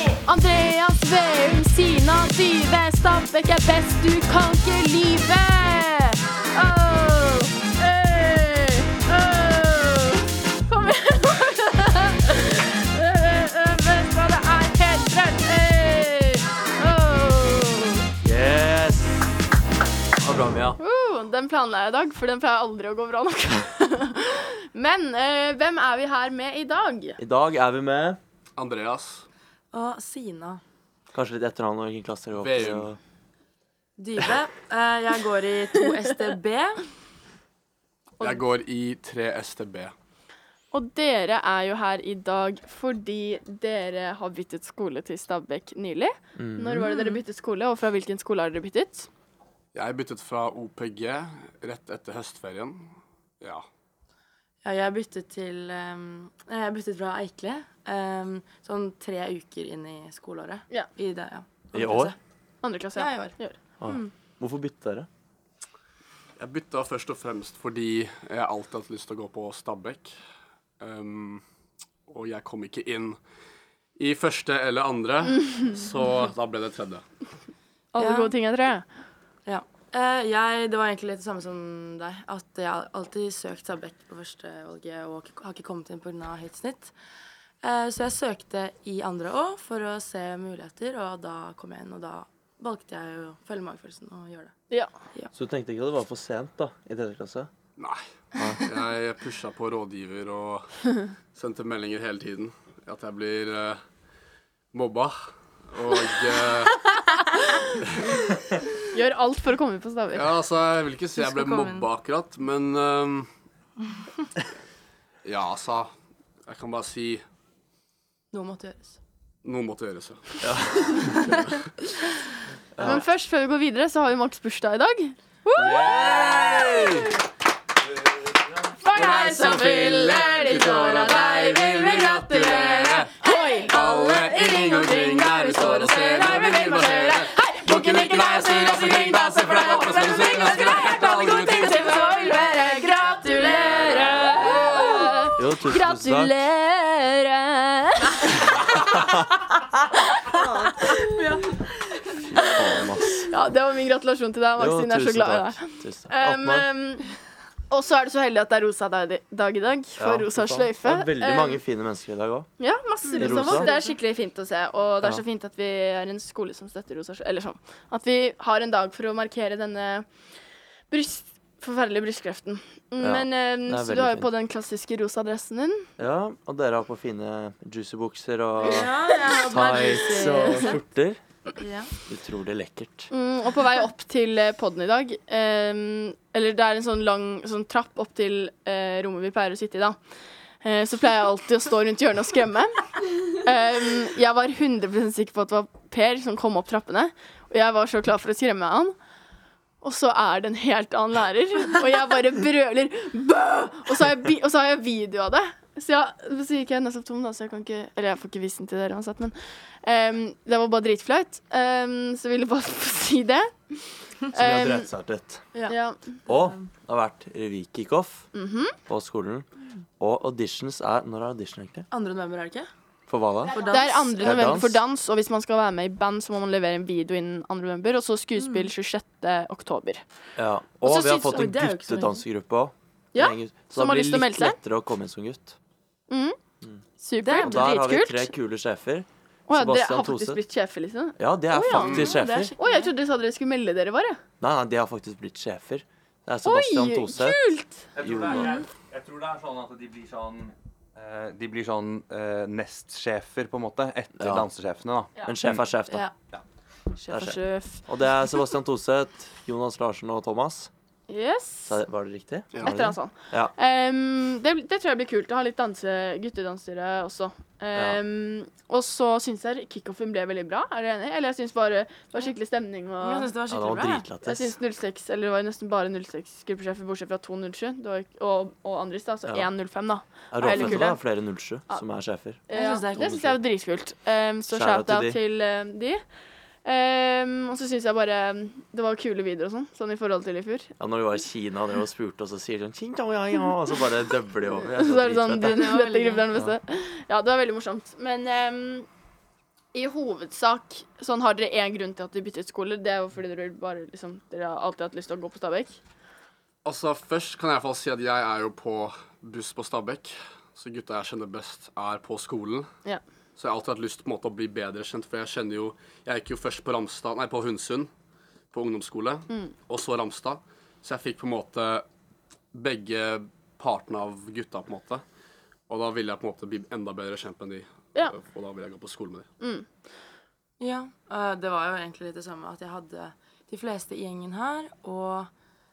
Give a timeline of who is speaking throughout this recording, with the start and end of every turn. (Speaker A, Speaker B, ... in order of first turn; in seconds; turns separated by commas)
Speaker A: 0.2-18.1, Speaker B: 18.2-19.3, Speaker B: 20.2-20.8, Speaker A: 20.8-27.2, Speaker B: 27.2-28.2, Speaker C: 28.6-29.2, Speaker D: 29.7-30.6, Speaker B: 31.1-33.0, Speaker C: 32.4-32.9, Speaker D: 34.0-36.9, Speaker C: 38.2-39.9, Speaker A: 40.7-49.1, Speaker B: 46.3-46.9, Speaker D: 46.9-47.2, Speaker C: 49.7-53.6, Speaker D: 54.6-62.2, Speaker B: 61.7-62.1, Speaker A: 62.6-63.6, Speaker D: 62.9-64.1, Speaker B: 63.8-65.1, Speaker C: 66.4-70.2, Speaker C: 70.8-71.4, Speaker C: 72.1-73.2, Speaker C: 74.0-77.0, Speaker A: 77.9-78.9, Speaker D: 78.0-78.3, Speaker D: 79.4-86.9, Speaker D: 87.6-94.6, Speaker B: 95.3-97.5, Speaker C: 97.8-103.8, Speaker B: 98.3-98.6, Speaker C: 104.7-106.8, Speaker A: 108.9-110.3, Speaker C: 110.1-113.3, Speaker D: 111.1-111.9, Speaker C: 115.2-115.9, Speaker C: 116.5-117.2, Speaker D: 118.3-119.0, Speaker C: 119.4-121.6, Speaker B: 120.4-121.2, Speaker B: 122.7-123.0, Speaker A: 122.8-126.0, Speaker B: 125.6-126.7, Speaker C: 125.7-127.1, Speaker A: 128.8-148.9, Speaker C: 128.9-133.1, Speaker C: 133.6-142.0, Speaker D: 141.8-142.7, Speaker D: 143.2-144.7, Speaker C: 143.9-144.8, Speaker B: 145.4-146.3, Speaker A: 150.2-151.4, Speaker D: 151.2-151.7, Speaker B: 152.3-153.3, Speaker A: 153.3-157.1, Speaker B: 154.6-156.7, Speaker A: 157.7-161.6, Speaker B: 160.0-163.7, Speaker A: 162.6-170.2, Speaker D: 163.0-163.9, Speaker A: 170.9-175.9, Speaker B: 173.0-174.3, Speaker B: 176.0-181.2, Speaker D: 178.6-180.8, Speaker A: 180.1-180.7, Speaker D: 181.6-181.9, Speaker B: 182.1-183.1, Speaker A: 183.1-198.9, Speaker A: 199.8-214.9, Speaker B: 214.3-215.6, Speaker A: 215.7-216.2, Speaker B: 216.2-219.5, Speaker D: 216.3-216.6, Speaker A: 218.3-218.8, Speaker B: 220.0-221.9, Speaker D: 221.9-222.7, Speaker B: 223.1-223.6, Speaker D: 223.5-224.5, Speaker A: 223.7-230.1, Speaker B: 224.2-224.8, Speaker D: 228.4-228.7, Speaker B: 230.3-235.6, Speaker A: 230.8-231.5, Speaker D: 231.3-232.2, Speaker A: 233.1-234.6, Speaker A: 236.1-236.4, Speaker A: 237.0-238.3, Speaker D: 237.2-237.7, Speaker B: 237.4-240.4, Speaker A: 239.5-242.0, Speaker B: 241.2-242.5, Speaker C: 241.7-242.2, Speaker D: 241.9-242.9, Speaker A: 242.6-244.2, Speaker B: 244.4-248.5, Speaker A: 246.4-248.6, Speaker E: 247.9-255.7, Speaker B: 254.1-254.5, Speaker B: 255.2-256.1, Speaker D: 255.9-256.1, Speaker A: 256.9-258.2, Speaker B: 257.1-260.7, Speaker A: 261.1-261.8, Speaker B: 261.7-263.5, Speaker A: 262.6-273.3, Speaker B: 267.7-268.0, Speaker D: 273.0-274.1, Speaker B: 273.5-274.6, Speaker A: 274.2-281.8, Speaker B: 279.2-279.6, Speaker B: 280.1-282.4, Speaker D: 280.4-280.9, Speaker A: 282.4-290.7, Speaker D: 282.5-283.4, Speaker B: 284.5-285.2, Speaker B: 290.8-295.6, Speaker A: 294.8-298.9, Speaker D: 295.5-296.3, Speaker A: 299.7-305.8, Speaker C: 306.6-312.7, Speaker C: 313.4-317.9, Speaker C: 318.5-321.8, Speaker C: 322.5-325.0, Speaker C: 325.7-329.3, Speaker A: 329.4-329.7, Speaker D: 330.6-335.3